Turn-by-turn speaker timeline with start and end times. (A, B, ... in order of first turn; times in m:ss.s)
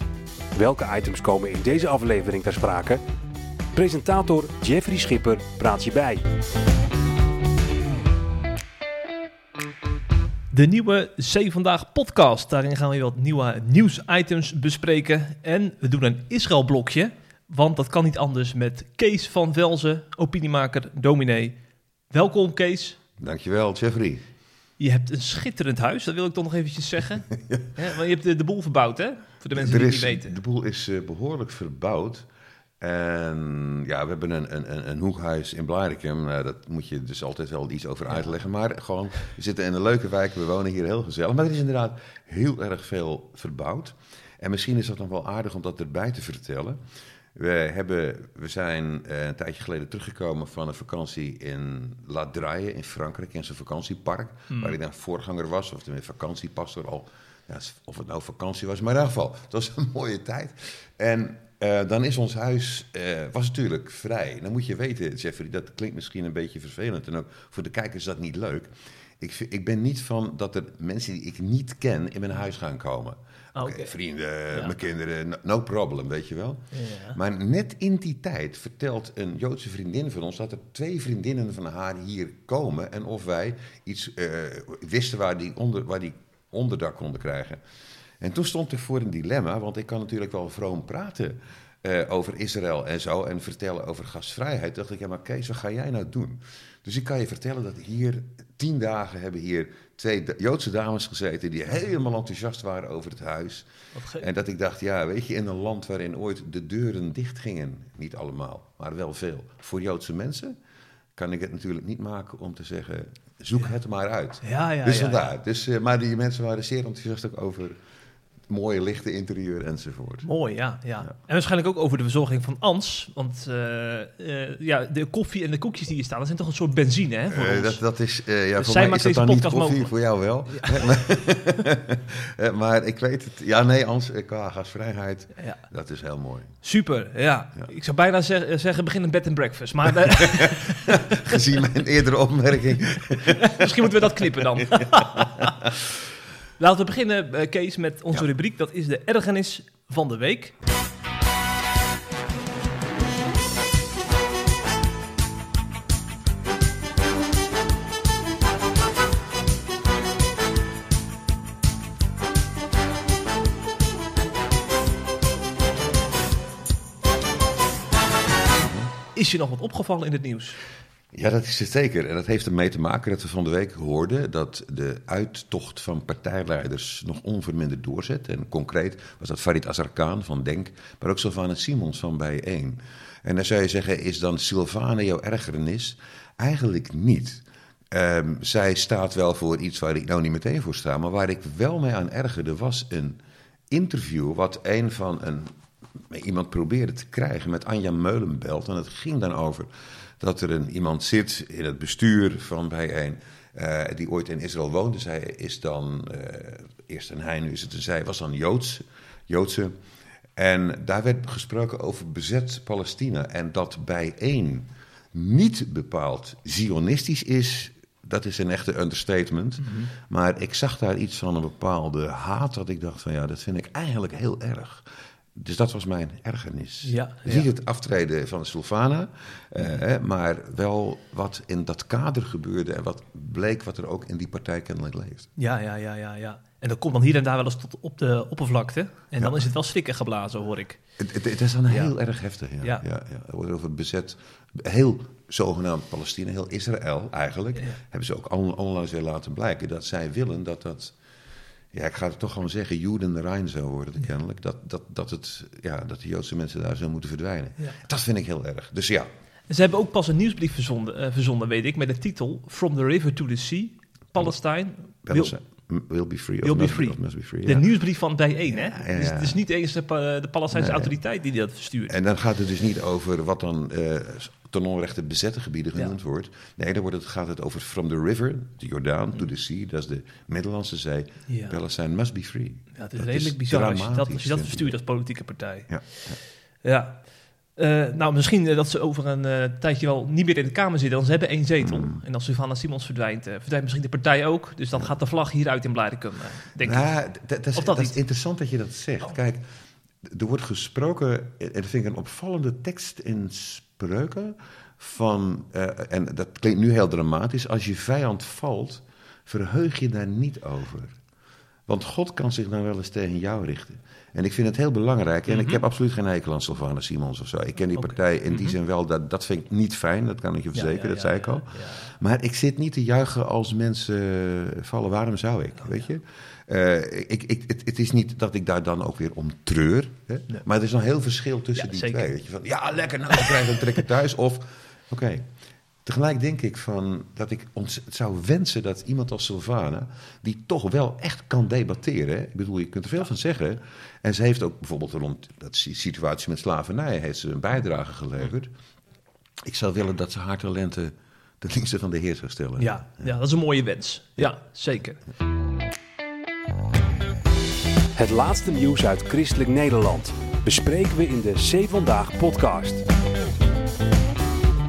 0:00.5-0:03.0 A
0:03.7-0:06.3 A
0:10.5-0:21.6 B
0:22.1-0:23.0 B
0:23.2-0:24.2 C
0:24.8-0:30.4 B
0:29.5-0:32.3 C
0:32.8-0:46.8 C
0:47.3-1:27.6 C
1:13.5-1:13.9 B
1:16.7-1:17.2 B
1:28.2-1:43.7 C
1:43.9-1:44.3 B
1:44.2-1:50.6 C
1:51.2-1:57.8 C
1:54.4-1:55.2 B
1:58.5-2:00.3 C
2:00.2-2:07.8 B
2:07.3-2:16.6 C
2:08.6-2:09.9 B
2:10.5-2:10.9 B
2:16.6-2:21.4 B
2:20.2-2:25.7 C
2:23.2-2:25.7 B
2:26.6-2:30.5 B
2:48.5-2:48.9 C
2:49.1-2:50.6 B
2:51.1-3:29.8 C
3:30.4-3:55.3 C
3:39.6-3:39.9 B
3:46.8-3:47.5 B
3:55.4-4:00.8 B
4:01.0-4:10.9 C
4:11.7-4:19.1 C
4:19.5-4:25.3 B
4:25.0-4:27.6 C
4:26.4-4:32.0 B
4:28.5-4:29.4 C
4:30.5-4:31.0 C
4:31.9-4:44.8 C
4:41.3-4:41.6 B
4:42.7-4:45.8 B
4:45.7-4:46.2 C
4:46.6-4:47.0 B
4:47.6-4:56.9 B
4:51.6-4:52.0 C
4:56.6-4:59.4 C
4:57.6-4:58.0 B
5:00.0-5:11.0 C
5:11.7-5:35.3 C
5:15.3-5:15.6 B
5:17.8-5:18.5 B
5:20.5-5:21.9 B
5:31.6-5:32.1 B
5:33.1-5:33.6 B
5:35.8-5:48.5 C
5:49.4-5:53.1 C
5:52.6-5:55.0 B
5:58.0-6:02.8 A